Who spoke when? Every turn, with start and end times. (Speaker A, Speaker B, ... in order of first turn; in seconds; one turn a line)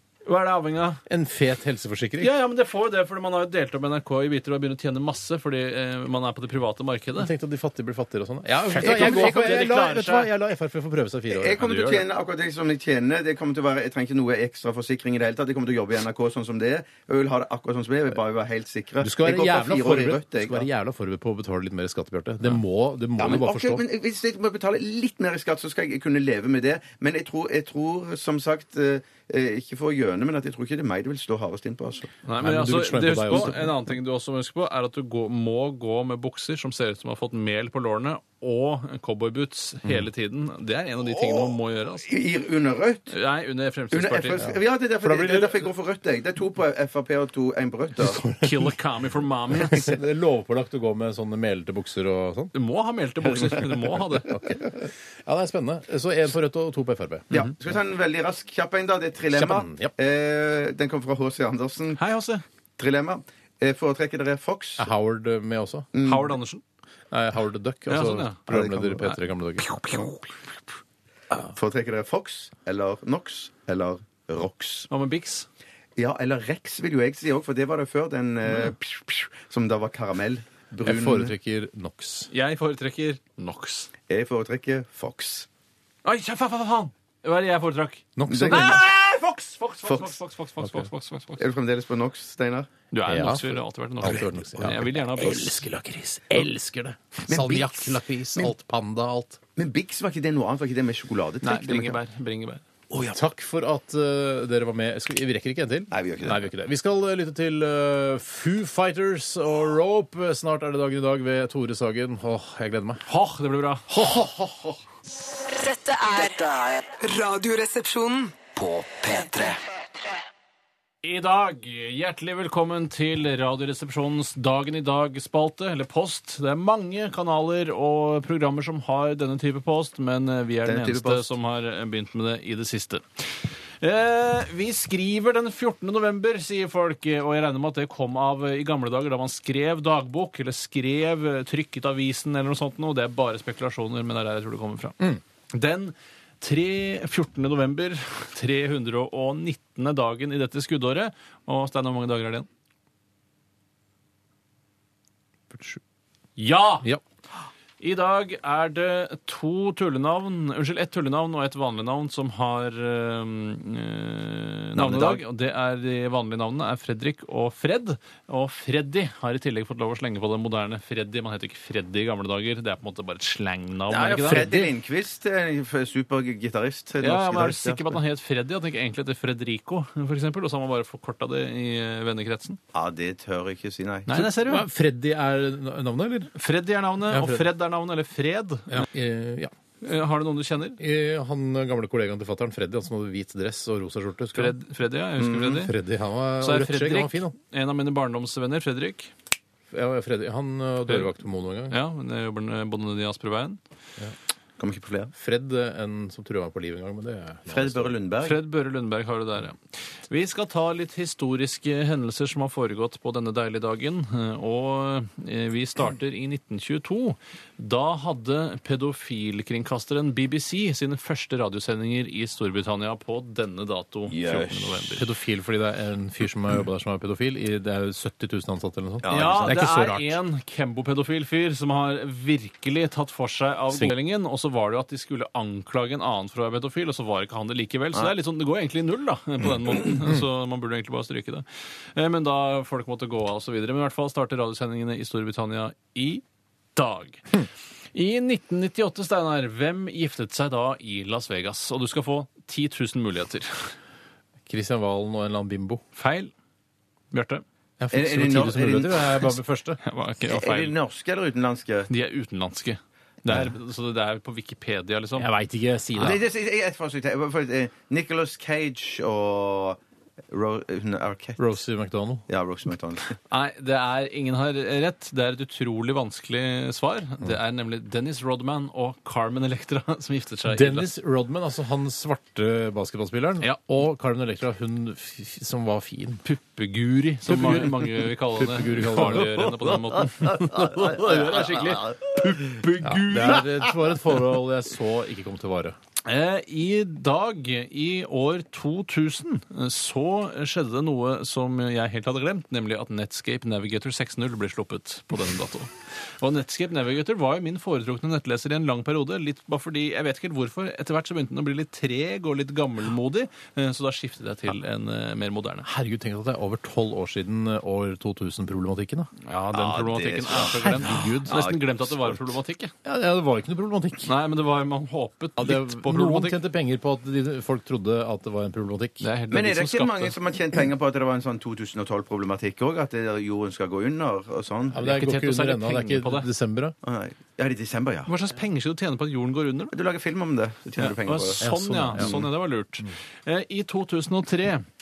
Speaker A: 0.2-1.0
Speaker B: 1.1-2.3
Speaker A: 2.2-7.3
Speaker B: 7.2-11.7
Speaker A: 8.7-10.3
Speaker C: 8.8-9.5
Speaker C: 11.3-20.7
Speaker A: 11.6-12.0
Speaker B: 19.0-23.8
Speaker C: 23.2-32.1
Speaker A: 32.2-42.1
Speaker B: 32.4-33.8
Speaker C: 41.0-43.1
Speaker A: 43.1-44.5
Speaker C: 43.9-48.2
Speaker B: 45.0-45.7
Speaker B: 48.0-48.7
Speaker A: 48.2-49.8
Speaker B: 49.5-52.5
Speaker A: 52.5-54.4
Speaker B: 54.3-57.4
Speaker C: 57.3-62.0
Speaker B: 59.3-59.9
Speaker A: 62.0-62.4
Speaker C: 62.8-64.9
Speaker B: 64.8-65.9
Speaker C: 65.9-66.3
Speaker A: 66.0-66.6
Speaker B: 67.1-69.8
Speaker A: 67.9-68.5
Speaker C: 68.5-69.0
Speaker A: 69.0-70.3
Speaker C: 71.5-74.9
Speaker A: 74.9-75.5
Speaker C: 76.0-81.3
Speaker B: 80.8-82.3
Speaker A: 82.3-83.9
Speaker C: 84.1-85.5
Speaker A: 86.0-91.5
Speaker B: 88.2-88.8
Speaker C: 88.3-88.8
Speaker C: 89.9-90.1
Speaker C: 91.4-92.7
Speaker A: 92.9-95.6
Speaker B: 93.0-99.4
Speaker C: 94.7-95.5
Speaker C: 97.3-98.5
Speaker C: 99.6-102.0
Speaker A: 101.4-102.6
Speaker C: 102.9-103.2
Speaker B: 103.1-113.0
Speaker C: 105.9-106.5
Speaker A: 113.0-114.3
Speaker B: 113.9-114.8
Speaker D: 115.5-116.3
Speaker E: 116.1-116.9
Speaker D: 117.0-118.4
Speaker E: 118.5-119.6
Speaker A: 121.0-152.5
Speaker C: 130.6-131.3
Speaker B: 155.5-155.8
Speaker A: 156.4-156.9
Speaker A: 157.8-174.5
Speaker C: 164.8-165.2
Speaker C: 173.9-177.9
Speaker B: 174.2-174.7
Speaker A: 177.0-182.6
Speaker C: 182.7-184.2
Speaker A: 184.1-184.6
Speaker B: 184.2-186.3
Speaker A: 186.3-188.9
Speaker B: 187.1-187.5
Speaker B: 188.7-189.5
Speaker A: 189.8-190.8
Speaker B: 190.8-194.5
Speaker A: 194.3-195.7
Speaker C: 195.2-195.5
Speaker B: 195.2-197.3
Speaker A: 196.4-199.1
Speaker B: 199.7-201.8
Speaker A: 201.7-203.6
Speaker C: 204.6-205.1
Speaker B: 205.1-207.9
Speaker C: 207.5-208.4
Speaker A: 208.2-225.1
Speaker C: 224.1-224.8
Speaker B: 225.0-230.2
Speaker C: 229.0-229.6
Speaker A: 229.1-246.2
Speaker A: 246.7-247.2
Speaker A: 247.9-253.7
Speaker B: 254.5-255.8
Speaker A: 255.9-256.3
Speaker A: 257.1-257.4
Speaker B: 257.8-259.8
Speaker C: 257.9-259.2
Speaker A: 259.8-260.7
Speaker C: 260.3-261.9
Speaker A: 261.9-265.3
Speaker B: 265.2-266.2
Speaker C: 265.9-269.8
Speaker C: 270.3-271.4
Speaker B: 271.4-272.2
Speaker C: 272.3-273.1
Speaker A: 273.3-280.9
Speaker B: 280.5-286.2
Speaker A: 286.2-293.4
Speaker B: 287.2-289.6
Speaker C: 290.3-292.7
Speaker B: 292.8-295.8
Speaker A: 296.0-315.7
Speaker B: 315.6-319.1
Speaker A: 319.2-322.7
Speaker C: 319.5-322.3
Speaker B: 320.3-321.5
Speaker B: 322.8-324.1
Speaker A: 324.1-326.4
Speaker B: 325.4-329.1
Speaker A: 329.0-330.2
Speaker C: 329.3-334.9
Speaker B: 334.7-336.7
Speaker A: 334.8-336.3
Speaker C: 336.8-338.1
Speaker A: 338.1-339.7
Speaker C: 339.7-342.3
Speaker A: 340.8-344.6
Speaker B: 341.4-342.1